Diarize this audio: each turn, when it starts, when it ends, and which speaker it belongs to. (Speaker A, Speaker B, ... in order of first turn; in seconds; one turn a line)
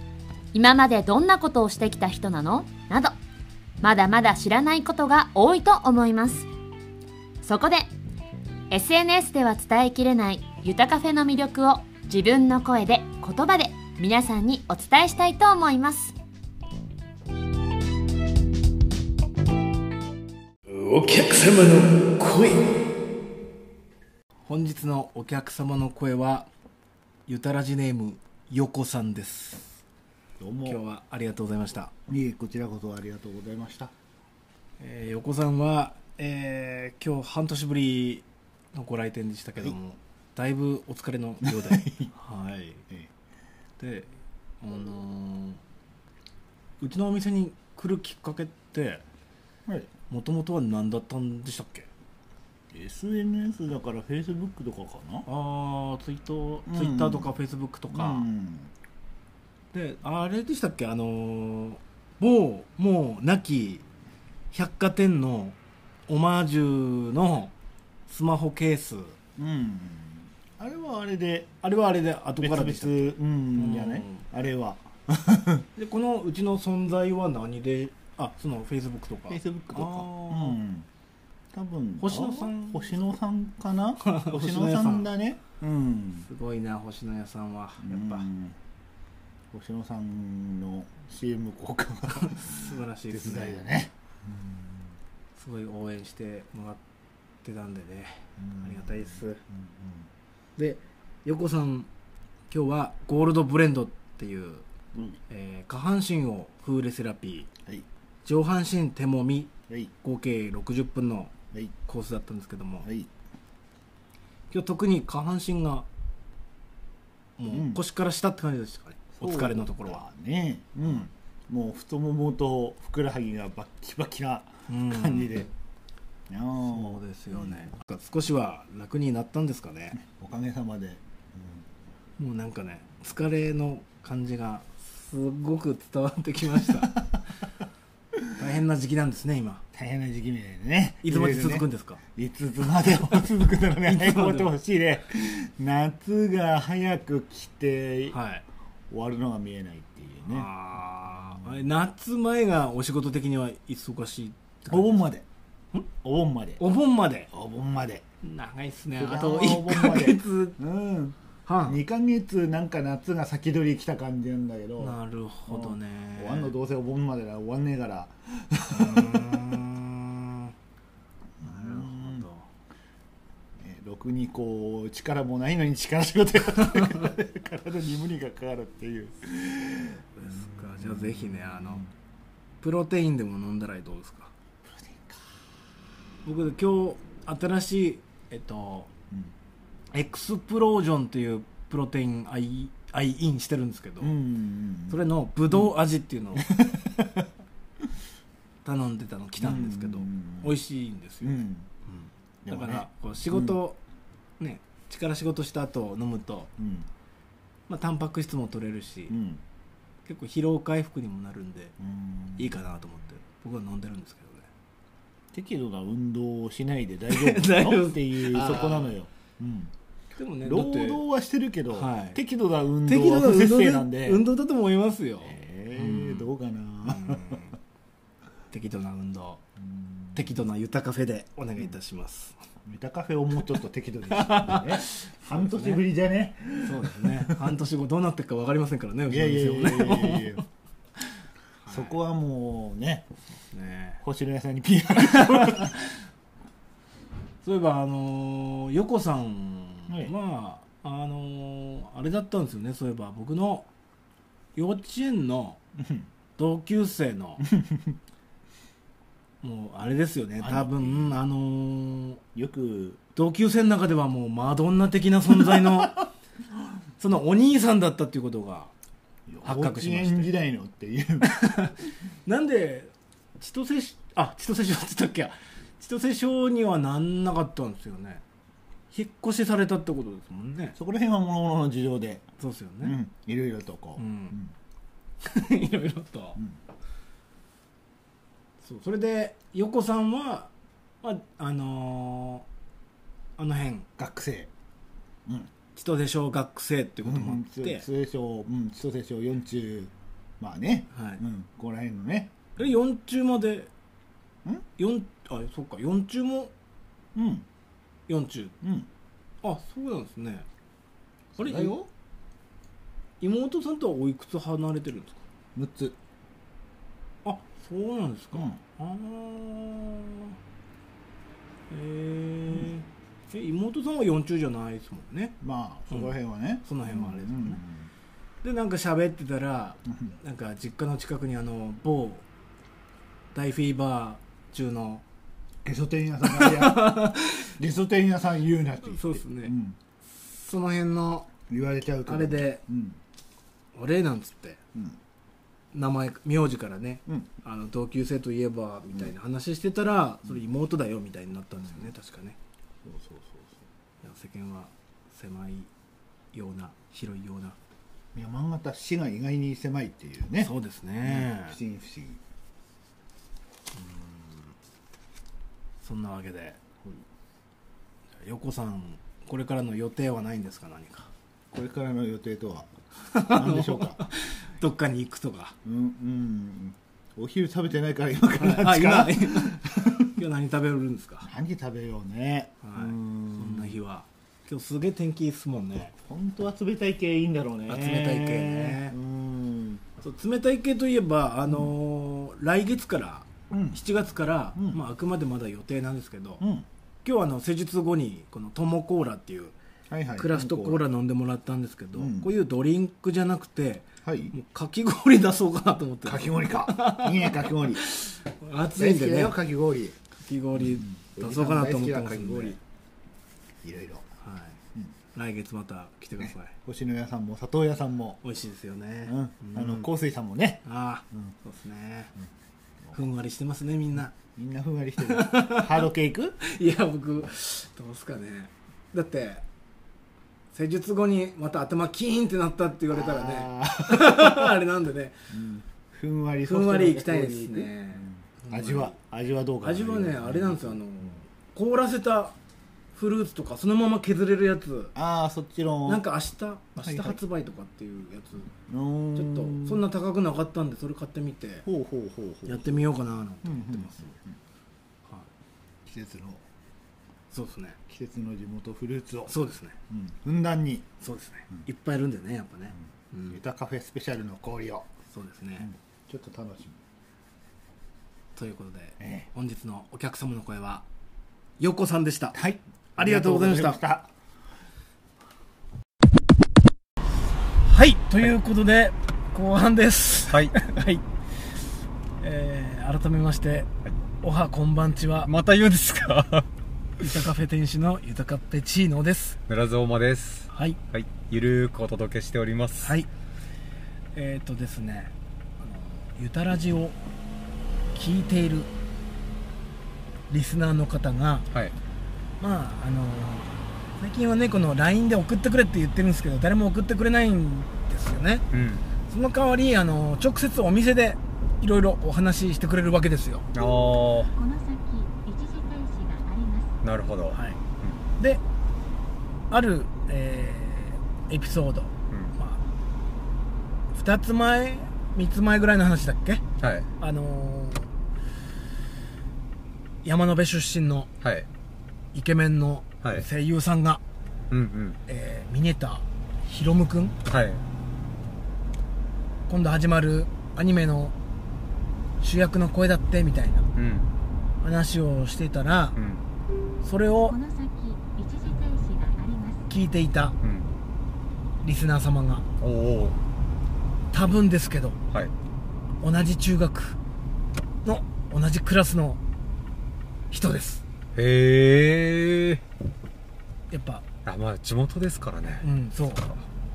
Speaker A: 0.5-3.1
Speaker A: 3.8-6.5
Speaker A: 7.4-7.9
Speaker A: 8.7-16.1
Speaker B: 20.7-22.9
Speaker B: 24.4-26.5
Speaker B: 27.3-29.8
Speaker C: 30.4-30.8
Speaker B: 30.6-31.9
Speaker C: 32.1-33.9
Speaker B: 34.8-42.9
Speaker C: 41.4-42.1
Speaker B: 43.8-45.6
Speaker B: 46.8-49.0
Speaker C: 49.7-49.9
Speaker B: 50.1-51.9
Speaker C: 52.7-55.3
Speaker B: 55.3-58.3
Speaker C: 56.7-57.3
Speaker C: 57.9-58.7
Speaker B: 59.7-63.9
Speaker B: 64.5-65.6
Speaker B: 66.1-67.5
Speaker B: 68.1-69.2
Speaker C: 69.4-71.5
Speaker B: 71.6-74.2
Speaker C: 72.4-75.7
Speaker B: 75.8-80.6
Speaker C: 79.3-80.9
Speaker C: 81.5-86.3
Speaker B: 82.0-83.0
Speaker B: 84.0-85.1
Speaker B: 86.2-88.3
Speaker C: 87.8-88.6
Speaker C: 89.5-94.8
Speaker B: 92.2-93.6
Speaker B: 95.4-96.8
Speaker B: 97.4-99.4
Speaker C: 98.4-100.1
Speaker B: 100.6-101.9
Speaker B: 102.5-104.7
Speaker B: 105.3-107.5
Speaker B: 108.2-111.3
Speaker B: 111.9-112.9
Speaker C: 112.8-113.1
Speaker B: 114.5-115.9
Speaker B: 117.4-120.0
Speaker C: 117.5-117.8
Speaker C: 119.2-125.5
Speaker B: 124.7-125.3
Speaker C: 126.3-127.6
Speaker B: 126.6-130.0
Speaker C: 130.0-131.7
Speaker B: 132.2-137.0
Speaker B: 138.3-139.6
Speaker C: 139.7-148.2
Speaker B: 141.0-142.0
Speaker B: 143.8-144.5
Speaker B: 148.1-148.4
Speaker C: 148.9-150.5
Speaker B: 150.3-155.1
Speaker C: 154.7-155.3
Speaker C: 156.0-156.6
Speaker B: 156.6-157.3
Speaker C: 157.3-158.1
Speaker B: 158.2-160.6
Speaker C: 159.0-169.4
Speaker B: 161.5-161.8
Speaker B: 164.8-166.6
Speaker B: 168.7-170.5
Speaker C: 171.4-172.2
Speaker B: 171.4-172.5
Speaker C: 173.6-180.1
Speaker B: 176.6-177.1
Speaker B: 180.2-181.9
Speaker C: 180.8-181.8
Speaker B: 182.6-184.3
Speaker C: 184.7-185.2
Speaker B: 186.2-188.9
Speaker B: 189.9-194.2
Speaker C: 194.0-195.7
Speaker B: 194.9-196.6
Speaker C: 196.4-197.3
Speaker B: 198.6-203.8
Speaker C: 199.4-200.6
Speaker C: 201.2-201.7
Speaker C: 202.4-203.6
Speaker B: 204.4-206.5
Speaker C: 206.6-206.9
Speaker B: 207.7-209.2
Speaker C: 209.1-209.4
Speaker B: 210.1-211.8
Speaker C: 211.8-212.6
Speaker B: 212.4-214.5
Speaker C: 215.3-219.7
Speaker B: 217.1-218.9
Speaker B: 220.2-221.0
Speaker C: 220.4-224.3
Speaker B: 221.7-222.2
Speaker B: 222.9-226.3
Speaker C: 225.2-227.4
Speaker B: 226.8-227.6
Speaker B: 228.5-229.4
Speaker C: 229.6-230.2
Speaker B: 230.2-232.4
Speaker C: 232.7-237.4
Speaker B: 234.1-235.8
Speaker B: 236.6-240.4
Speaker C: 239.1-240.4
Speaker B: 241.6-242.0
Speaker C: 241.7-243.1
Speaker B: 243.5-244.0
Speaker C: 244.0-245.8
Speaker B: 245.0-245.9
Speaker B: 247.4-253.7
Speaker C: 249.9-250.1
Speaker B: 254.6-255.6
Speaker C: 255.8-256.1
Speaker B: 256.4-257.5
Speaker C: 257.5-258.0
Speaker B: 259.4-262.2
Speaker C: 260.4-261.1
Speaker C: 262.4-263.0
Speaker B: 263.1-266.1
Speaker C: 265.6-265.9
Speaker B: 267.0-268.7
Speaker C: 269.3-271.3
Speaker B: 269.4-270.3
Speaker B: 271.2-278.2
Speaker B: 278.9-280.8
Speaker C: 280.8-282.3
Speaker B: 282.4-283.0
Speaker C: 282.8-284.5
Speaker B: 284.0-284.4
Speaker B: 285.2-286.4
Speaker B: 288.6-290.5
Speaker B: 291.0-292.5
Speaker B: 293.4-293.9
Speaker C: 294.0-294.5
Speaker C: 295.3-295.5
Speaker B: 295.8-297.9
Speaker C: 297.0-302.6
Speaker B: 300.9-301.2
Speaker B: 302.6-303.7
Speaker B: 304.8-306.5
Speaker C: 307.1-307.5
Speaker B: 308.1-308.6
Speaker C: 308.6-308.9
Speaker B: 309.4-310.5
Speaker C: 311.4-311.9
Speaker B: 311.4-311.8
Speaker B: 313.2-315.2
Speaker C: 315.6-316.0
Speaker B: 317.2-320.4
Speaker B: 321.7-325.4
Speaker C: 325.4-327.9
Speaker B: 326.6-327.6
Speaker B: 328.4-332.2
Speaker B: 333.3-335.0
Speaker C: 335.6-339.8
Speaker B: 336.2-337.5
Speaker B: 338.9-339.5
Speaker B: 340.1-341.3
Speaker C: 341.5-343.0
Speaker B: 342.1-342.6
Speaker B: 343.8-344.6
Speaker B: 345.7-352.4
Speaker C: 352.9-353.6
Speaker B: 354.0-355.7
Speaker B: 356.3-357.6
Speaker C: 358.1-360.5
Speaker B: 360.4-361.6
Speaker C: 361.0-362.2
Speaker B: 363.7-364.5
Speaker B: 365.8-366.6
Speaker B: 368.2-371.1
Speaker C: 371.5-374.1
Speaker B: 373.0-375.6
Speaker C: 375.6-380.1
Speaker B: 378.4-381.3
Speaker C: 381.2-383.8
Speaker B: 382.6-385.9
Speaker C: 386.1-389.8
Speaker B: 387.7-389.0
Speaker B: 390.0-396.4
Speaker C: 393.5-393.8
Speaker C: 396.4-396.7
Speaker B: 397.0-399.6
Speaker C: 399.9-400.9
Speaker B: 400.2-409.4
Speaker C: 401.9-402.3
Speaker C: 404.0-404.3
Speaker C: 406.1-407.9
Speaker C: 408.8-410.0
Speaker B: 410.1-412.6
Speaker C: 410.6-412.6
Speaker C: 413.6-414.1
Speaker B: 414.2-414.6
Speaker B: 415.1-416.6
Speaker C: 416.2-418.2
Speaker B: 418.2-419.9
Speaker C: 419.1-421.3
Speaker B: 420.6-422.1
Speaker B: 422.9-424.2
Speaker C: 424.2-426.4
Speaker B: 425.0-425.9
Speaker B: 426.4-429.4
Speaker B: 430.5-435.2
Speaker C: 432.9-434.5
Speaker C: 435.3-441.1
Speaker B: 436.4-438.9
Speaker B: 439.6-442.4
Speaker B: 442.9-444.9
Speaker C: 444.9-446.1
Speaker B: 445.9-448.5
Speaker C: 446.8-447.2
Speaker C: 448.7-449.8
Speaker B: 449.1-451.7
Speaker C: 451.6-452.9
Speaker B: 452.5-454.1
Speaker C: 453.4-454.4
Speaker C: 455.9-456.4
Speaker B: 457.3-457.8
Speaker C: 457.9-459.4
Speaker B: 459.3-459.8
Speaker C: 459.9-460.9
Speaker B: 461.0-463.4
Speaker C: 463.3-464.9
Speaker B: 465.1-465.7
Speaker C: 465.6-466.8
Speaker B: 468.4-470.9
Speaker C: 469.0-469.3
Speaker B: 471.6-472.4
Speaker C: 472.3-474.1
Speaker B: 473.0-473.8
Speaker B: 477.6-481.0
Speaker D: 480.3-480.6
Speaker B: 482.2-483.7
Speaker B: 484.2-485.3
Speaker D: 485.3-486.5
Speaker B: 487.0-489.4
Speaker D: 489.5-493.0
Speaker B: 490.5-490.8
Speaker B: 492.8-493.1
Speaker B: 494.1-497.0
Speaker B: 497.9-498.7
Speaker B: 500.3-501.5
Speaker B: 502.4-508.5
Speaker D: 508.5-508.9
Speaker B: 509.1-513.5
Speaker D: 513.5-514.3
Speaker E: 514.4-516.7
Speaker D: 516.8-518.0
Speaker B: 517.3-517.6
Speaker B: 519.5-522.6
Speaker D: 522.1-522.4
Speaker B: 523.9-526.4
Speaker D: 526.6-526.9
Speaker B: 527.0-527.9
Speaker B: 530.0-531.1
Speaker D: 531.2-531.5
Speaker B: 532.1-534.0
Speaker D: 534.5-535.0
Speaker B: 535.1-537.1
Speaker D: 537.3-537.6
Speaker B: 539.5-541.1
Speaker B: 542.2-543.7
Speaker D: 543.8-544.1
Speaker B: 544.6-546.0
Speaker D: 546.0-546.2
Speaker B: 546.8-547.4
Speaker E: 547.2-549.7
Speaker B: 549.7-550.4
Speaker D: 550.4-550.7
Speaker B: 551.6-552.5
Speaker D: 552.6-553.2
Speaker B: 554.1-555.0
Speaker B: 556.0-557.0
Speaker B: 557.9-559.2
Speaker B: 560.3-560.8
Speaker D: 561.1-562.6
Speaker B: 563.7-564.0
Speaker D: 564.2-565.6
Speaker B: 565.6-566.4